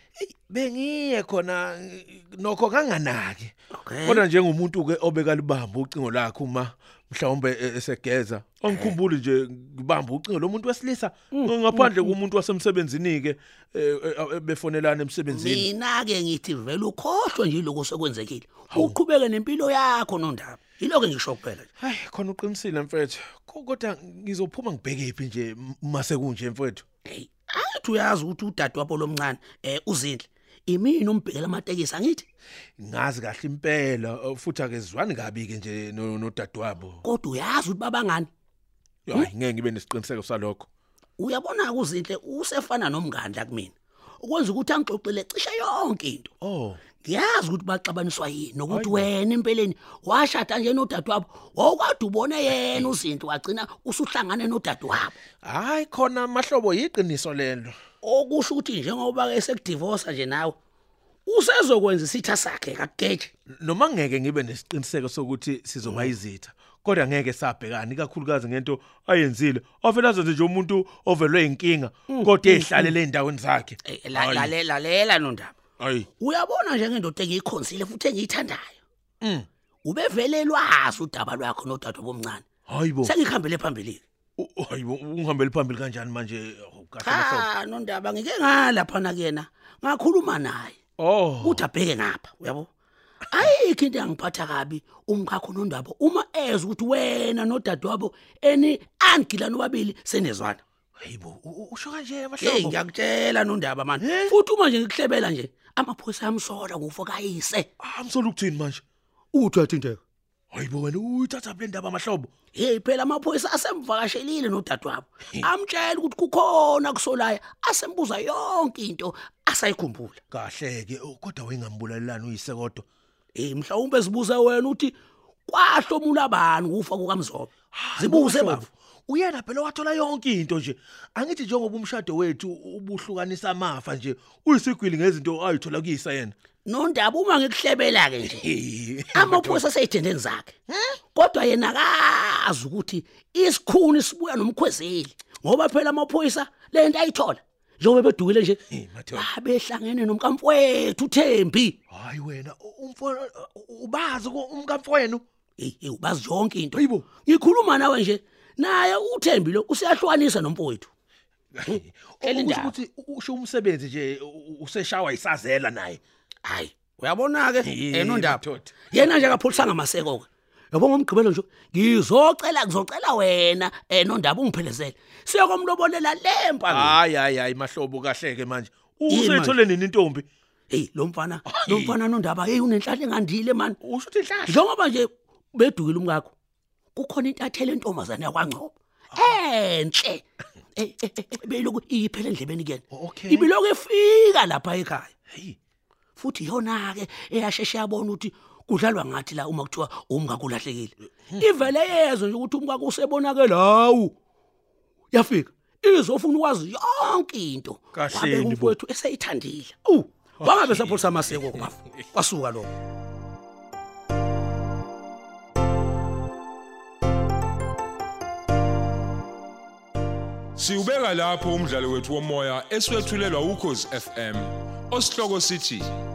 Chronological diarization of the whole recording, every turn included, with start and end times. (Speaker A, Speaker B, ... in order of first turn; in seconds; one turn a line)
Speaker A: 0.2-3.5
Speaker B: 3.8-4.2
Speaker A: 4.0-15.7
Speaker B: 8.7-8.9
Speaker B: 11.3-12.1
Speaker B: 15.3-21.7
Speaker A: 18.7-19.0
Speaker A: 21.8-26.8
Speaker B: 27.1-32.2
Speaker A: 32.8-37.0
Speaker B: 37.0-38.3
Speaker A: 39.1-40.7
Speaker B: 41.2-46.3
Speaker A: 46.4-46.9
Speaker B: 46.9-55.2
Speaker A: 48.7-49.1
Speaker A: 55.4-57.8
Speaker B: 58.0-60.5
Speaker B: 61.2-63.3
Speaker A: 63.5-74.5
Speaker B: 65.8-66.1
Speaker B: 72.1-72.9
Speaker B: 73.8-75.6
Speaker A: 75.8-76.1
Speaker B: 76.2-78.8
Speaker A: 79.2-79.5
Speaker B: 79.8-82.5
Speaker A: 82.7-83.1
Speaker B: 83.0-84.0
Speaker A: 84.4-87.5
Speaker B: 87.0-90.8
Speaker A: 91.0-91.7
Speaker B: 91.4-92.7
Speaker B: 93.3-100.6
Speaker A: 101.0-102.8
Speaker B: 102.4-107.7
Speaker A: 104.0-104.3
Speaker A: 107.8-108.8
Speaker B: 109.3-110.0
Speaker A: 110.5-112.3
Speaker B: 112.5-120.2
Speaker A: 120.3-122.8
Speaker B: 123.3-125.0
Speaker B: 125.5-128.7
Speaker A: 127.7-136.3
Speaker B: 136.6-138.5
Speaker A: 138.3-139.7
Speaker B: 139.1-140.5
Speaker B: 141.1-148.6
Speaker A: 148.7-149.3
Speaker B: 149.1-151.8
Speaker A: 151.9-155.2
Speaker B: 155.6-160.9
Speaker A: 156.7-157.1
Speaker A: 161.5-166.0
Speaker B: 161.7-162.7
Speaker B: 166.4-177.0
Speaker A: 167.6-169.4
Speaker A: 176.7-180.3
Speaker B: 179.1-179.6
Speaker B: 180.7-183.8
Speaker A: 181.4-181.9
Speaker A: 183.8-184.6
Speaker B: 184.5-186.3
Speaker B: 186.9-190.2
Speaker B: 190.8-195.1
Speaker A: 192.9-193.5
Speaker A: 195.3-195.6
Speaker B: 196.2-204.2
Speaker B: 205.1-212.7
Speaker A: 207.9-208.8
Speaker A: 210.4-211.6
Speaker C: 220.6-225.9